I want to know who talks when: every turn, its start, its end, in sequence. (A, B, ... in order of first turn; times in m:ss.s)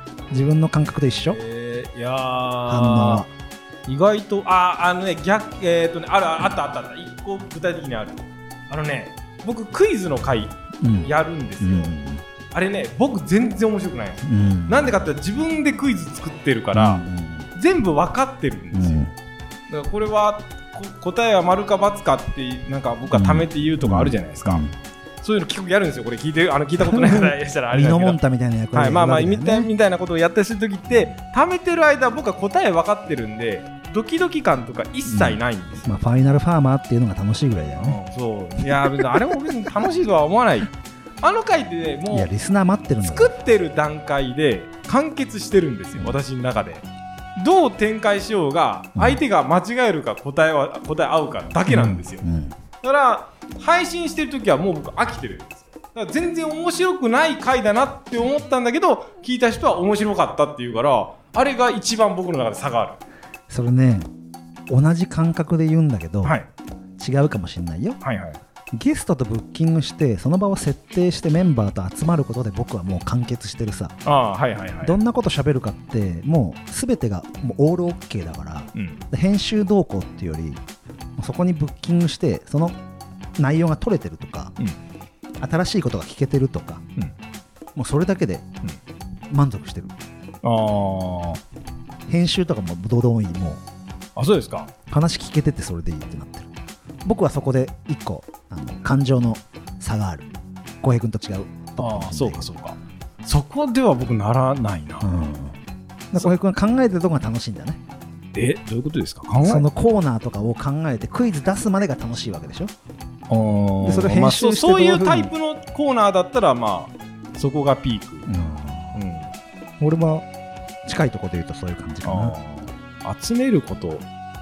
0:00.3-0:01.4 A
0:01.2-0:03.2 B
0:02.7-0:03.3 A
0:03.9-0:11.9 B
0:10.8-0:12.2 A
0:12.5-0:17.0 B
0:14.2-0:15.0 A
0:16.7-0:17.5 A
0:17.6-0:19.1 B
0:18.7-0:19.1 A
0:19.7-0:24.7 B
0:23.1-0:24.7 A
0:25.2-0:28.2 B
0:26.8-0:29.7 A
0:28.7-0:36.0 B
0:35.1-0:38.0 A
0:37.8-0:40.7 B
0:38.7-0:39.4 A
0:41.2-0:42.3 B
0:42.1-0:43.4 A
0:43.0-0:46.9 B
0:47.4-0:52.2 B
0:49.0-0:49.2 A
0:51.7-0:52.6 A
0:52.8-1:03.0 B
1:03.5-1:04.1 A
1:04.7-1:06.4 A
1:06.2-1:06.5 B
1:07.0-1:08.0 A
1:08.0-1:08.4 B
1:08.7-1:14.0 A
1:14.0-1:15.0 B
1:14.8-1:20.6 A
1:18.8-1:19.0 B
1:21.2-1:22.8 A
1:23.4-1:24.6 A
1:25.4-1:26.8 A
1:27.8-1:28.5 A
1:29.3-1:29.9 A
1:30.4-1:31.4 B
1:32.1-1:33.6 A
1:34.2-1:34.7 B
1:34.9-1:36.5 A
1:37.0-1:40.3 A
1:40.8-1:42.5 A
1:41.8-1:45.1 B
1:45.0-1:45.6 A
1:46.1-1:47.8 A
1:48.3-1:49.7 B
1:49.4-1:52.7 A
1:53.3-1:58.3 B
1:53.8-1:55.3 A
1:58.3-1:59.0 A
1:58.9-1:59.3 B
1:59.8-2:00.3 A
2:00.9-2:02.4 A
2:02.0-2:04.1 B